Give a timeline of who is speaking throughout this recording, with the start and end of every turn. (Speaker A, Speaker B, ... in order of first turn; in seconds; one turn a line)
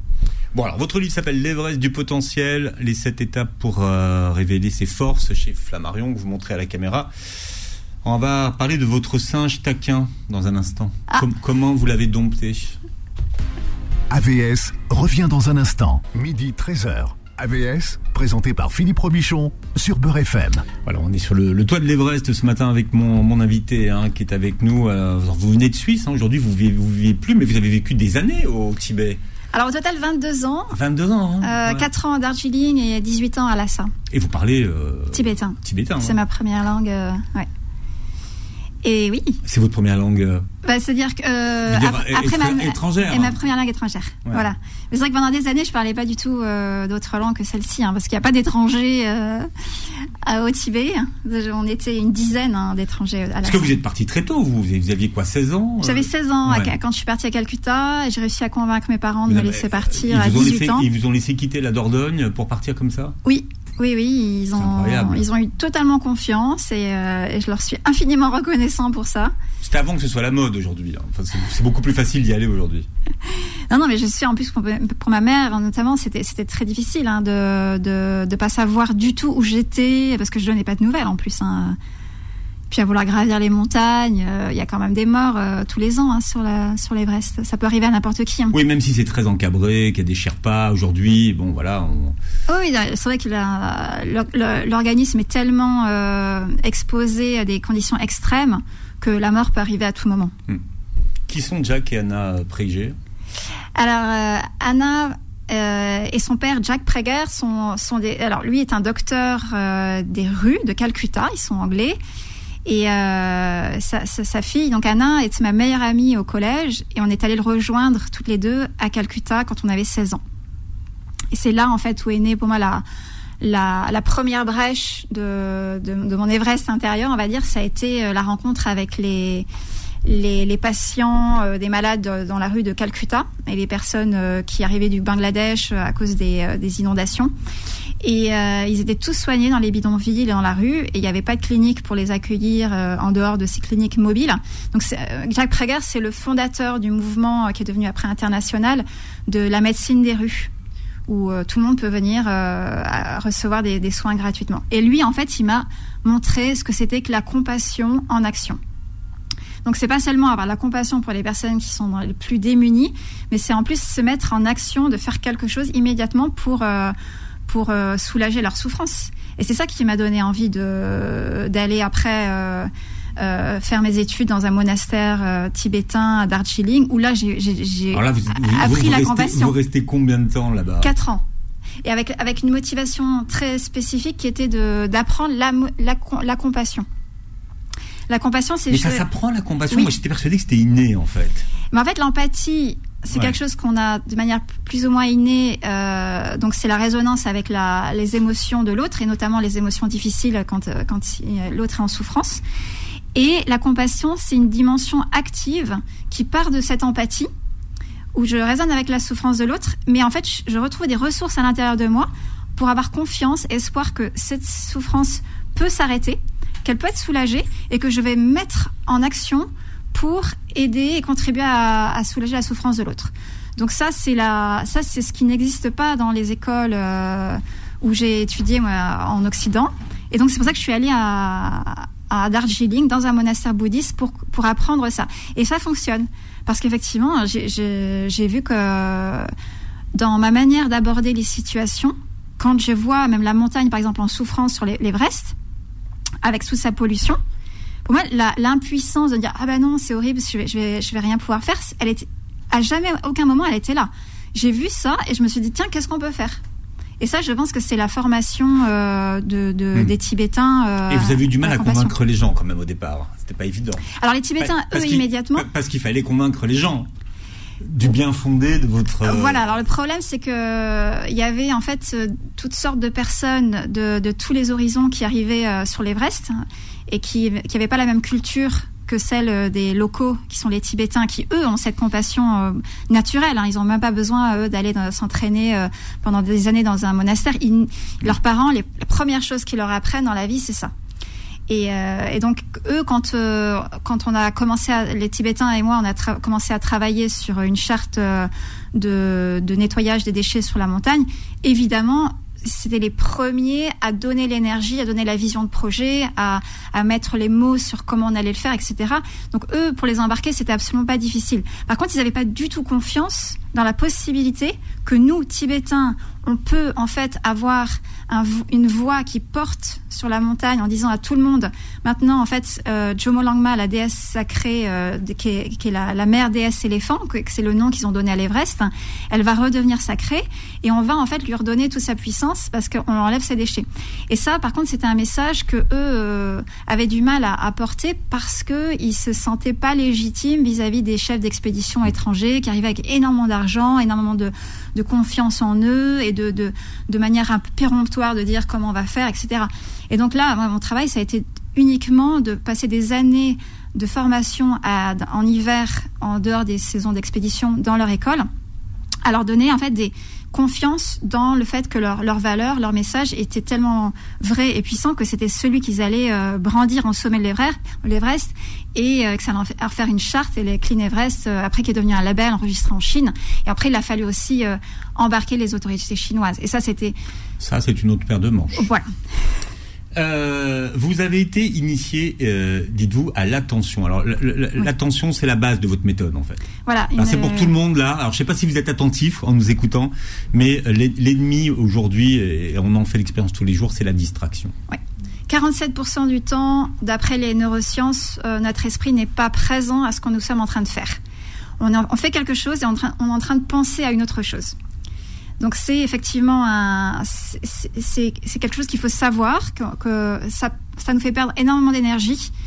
Speaker A: 0.5-7.1
Speaker A: 8.0-12.8
Speaker B: 14.1-20.7
Speaker A: 20.9-29.2
Speaker C: 29.5-30.8
Speaker A: 30.7-31.9
Speaker C: 31.4-33.9
Speaker A: 34.1-36.2
Speaker C: 35.1-37.5
Speaker C: 38.8-39.4
Speaker A: 39.5-40.5
Speaker C: 40.6-53.7
Speaker A: 41.7-43.4
Speaker A: 53.4-56.7
Speaker C: 55.8-60.9
Speaker A: 59.3-63.2
Speaker C: 63.2-69.3
Speaker A: 64.6-65.2
Speaker A: 69.6-72.9
Speaker C: 73.3-81.8
Speaker C: 82.7-88.6
Speaker A: 88.5-92.2
Speaker C: 92.5-100.3
Speaker A: 101.3-103.0
Speaker C: 103.8-112.0
Speaker C: 112.7-120.2
Speaker C: 121.3-122.8
Speaker C: 123.4-129.5
Speaker C: 130.1-137.3
Speaker C: 138.0-150.5
Speaker C: 151.1-158.6
Speaker C: 159.7-166.9
Speaker C: 167.5-179.6
Speaker A: 177.9-180.9
Speaker C: 180.8-181.2
Speaker C: 181.8-186.9
Speaker C: 188.1-189.0
Speaker A: 188.7-191.5
Speaker C: 191.7-202.4
Speaker C: 203.2-207.3
Speaker C: 208.2-239.3
Speaker C: 239.9-245.3
Speaker C: 246.2-247.2
Speaker C: 247.9-256.4
Speaker C: 257.0-261.9
Speaker A: 260.9-263.9
Speaker C: 264.0-265.5
Speaker A: 264.4-266.9
Speaker A: 267.7-269.4
Speaker C: 269.0-290.7
Speaker C: 291.5-358.3
Speaker C: 359.1-377.0
Speaker A: 377.4-378.6
Speaker C: 378.6-378.9
Speaker A: 379.9-386.4
Speaker C: 386.7-387.5
Speaker A: 387.0-394.5
Speaker C: 394.7-401.0
Speaker C: 401.6-404.6
Speaker C: 405.4-412.3